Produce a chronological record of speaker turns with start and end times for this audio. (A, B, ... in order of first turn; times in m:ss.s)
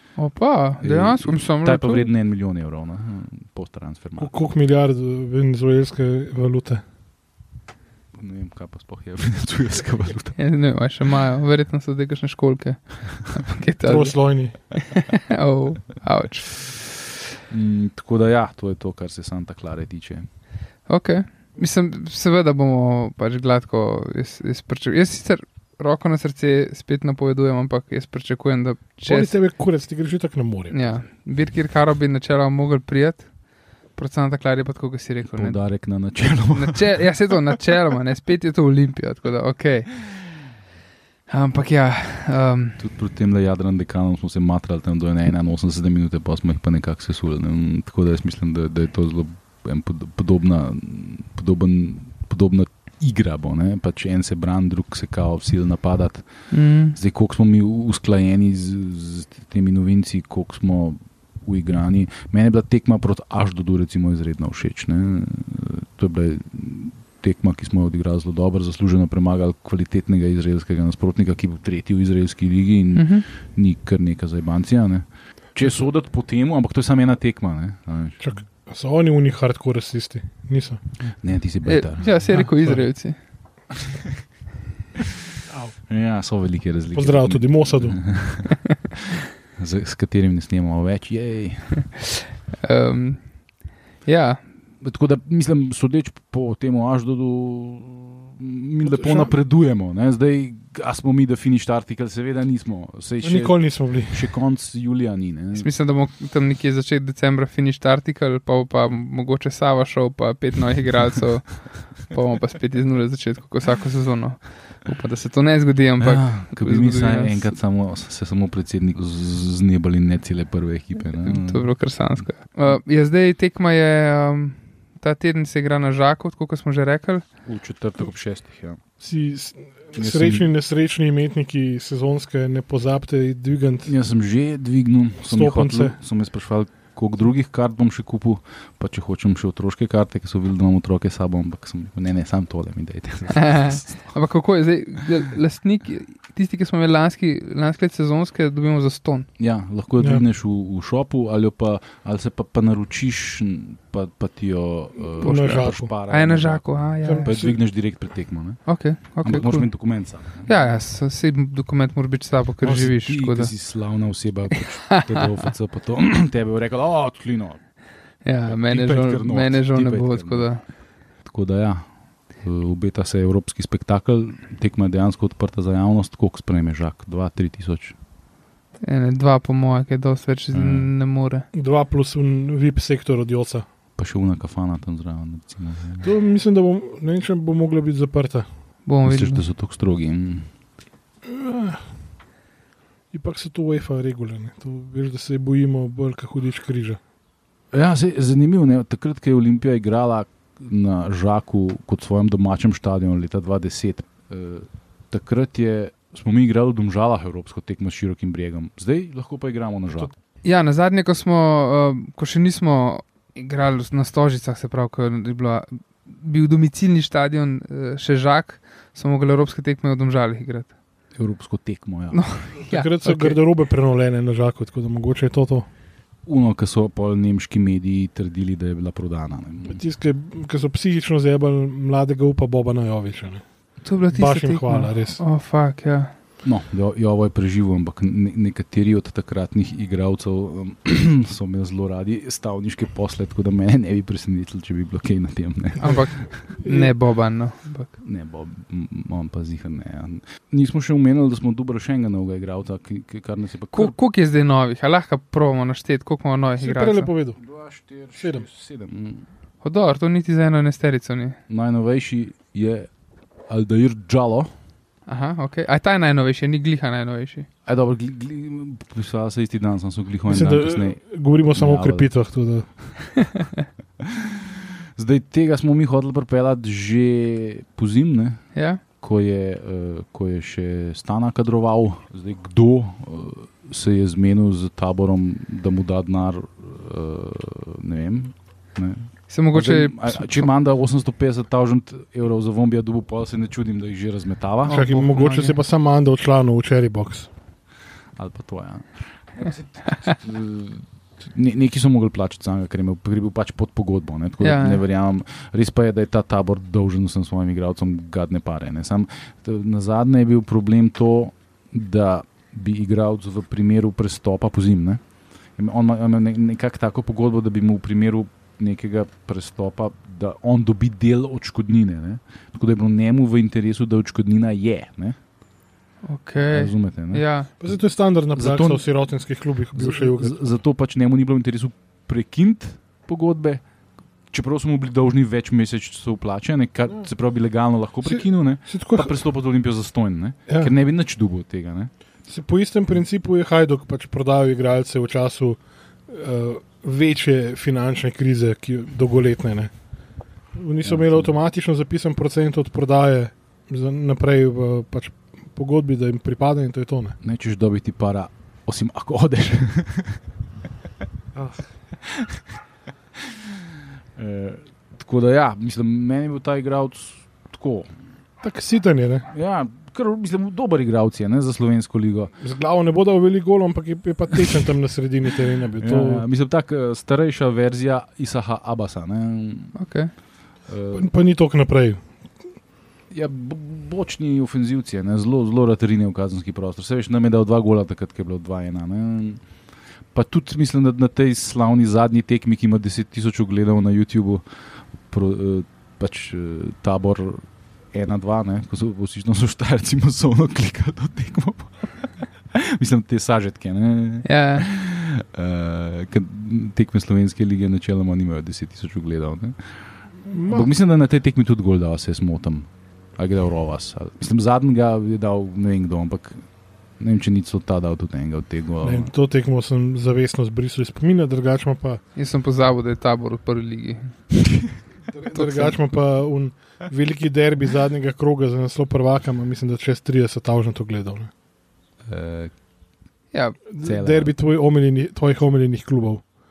0:00.2-0:02.1 A
0:00.8-0:04.3 B
0:04.2-0:06.8 C
0:08.1-0:10.4 B
0:10.4-0:14.1 A
0:13.8-0:14.5 C
0:14.8-0:16.8 A
0:17.5-0:20.2 B
0:20.9-0:29.3 A
0:29.0-0:30.9 C
0:30.7-0:33.3 A
0:33.9-0:35.6 A
0:35.3-0:37.5 B
0:36.5-0:40.2 A
0:41.3-0:42.8 A
0:42.8-0:56.2 B
0:56.5-0:57.0 A
0:56.9-1:18.2 B
1:12.9-1:13.2 A
1:18.2-1:20.8 C
1:21.2-1:22.2 B
1:21.6-1:23.2 A
1:22.3-1:22.8 C
1:23.8-1:24.1 B
1:25.0-1:25.2 B
1:25.5-1:25.7 C
1:25.9-1:29.0 B
1:26.9-1:28.0 C
1:29.5-1:31.8 B
1:32.6-1:33.2 A
1:34.0-1:34.4 A
1:34.8-1:45.7 B
1:38.8-1:39.3 C
1:43.2-1:44.3 C
1:45.5-1:57.5 A
1:56.0-2:01.7 B
2:01.2-2:07.2 A
2:07.4-2:08.8 B
2:09.0-2:13.9 C
2:10.0-2:10.4 B
2:13.8-2:24.1 B
2:15.3-2:16.0 C
2:23.3-2:29.3 A
2:29.4-2:36.6 B
2:35.2-2:37.3 A
2:35.2-2:35.9 C
2:37.0-2:37.6 C
2:37.2-2:38.6 B
2:38.6-2:39.7 A
2:39.2-2:40.5 B
2:40.4-2:43.5 A
2:42.6-2:47.6 B
2:44.5-2:45.5 A
2:48.2-2:50.6 A
2:48.4-2:50.5 B
2:51.2-2:51.9 B
2:52.4-2:58.0 B
2:58.8-3:01.5 A
3:00.5-3:00.9 B
3:01.5-3:03.6 C
3:04.0-3:06.1 B
3:06.0-3:08.5 C
3:08.8-3:09.4 A
3:09.0-3:10.5 B
3:11.2-3:11.8 C
3:13.1-3:17.0 C
3:17.7-3:30.1 B
3:30.4-3:40.7 A
3:41.2-3:42.2 B
3:42.1-3:43.4 A
3:42.7-3:45.7 C
3:46.2-3:49.8 B
3:49.6-3:53.4 C
3:53.8-3:56.1 A
3:54.1-3:55.2 C
3:56.4-4:06.0 B
4:05.8-4:07.9 A
4:05.8-4:06.9 C
4:08.0-4:13.9 B
4:13.7-4:17.1 A
4:16.6-4:17.4 C
4:17.4-4:19.2 B
4:18.1-4:18.4 C
4:19.6-4:21.4 A
4:21.5-4:22.9 B
4:23.5-4:24.5 B
4:25.1-4:27.5 A
4:27.6-4:31.0 B
4:30.3-4:32.7 C
4:31.5-4:32.1 B
4:33.2-4:33.4 A
4:34.0-4:38.4 B
4:38.5-4:38.8 A
4:39.0-4:54.8 B
4:49.3-4:50.5 A
4:54.6-4:55.6 A
4:54.7-4:57.3 C
4:58.2-5:15.0 B
5:04.4-5:04.8 A
5:15.6-5:25.2 B
5:26.1-5:27.5 A
5:26.4-5:27.7 B
5:27.6-5:30.5 C
5:28.3-5:28.8 B
5:29.7-5:33.6 B
5:34.3-5:41.9 B
5:38.0-5:39.2 C
5:42.3-5:49.7 C
5:50.6-5:57.2 C
5:50.8-5:51.3 B
5:57.2-6:00.2 B
6:01.3-6:01.6 C
6:02.0-6:02.4 B
6:03.2-6:07.9 B
6:08.4-6:09.3 C
6:09.3-6:12.3 B
6:12.4-6:16.2 C
6:15.8-6:19.7 B
6:19.8-6:20.1 A
6:20.7-6:21.1 B
6:20.9-6:22.0 C
6:23.1-6:29.4 B
6:30.1-6:34.4 B
6:35.0-6:41.9 B
6:42.5-6:49.6 B
6:44.2-6:44.7 A
6:50.3-6:50.7 C
6:50.4-6:56.4 B
6:57.0-6:59.1 B
6:58.8-7:02.0 C
7:02.2-7:04.1 A
7:05.1-7:11.3 C
7:05.3-7:05.8 A
7:12.0-7:12.5 B
7:13.3-7:13.6 A
7:13.7-7:16.2 C
7:13.8-7:14.3 B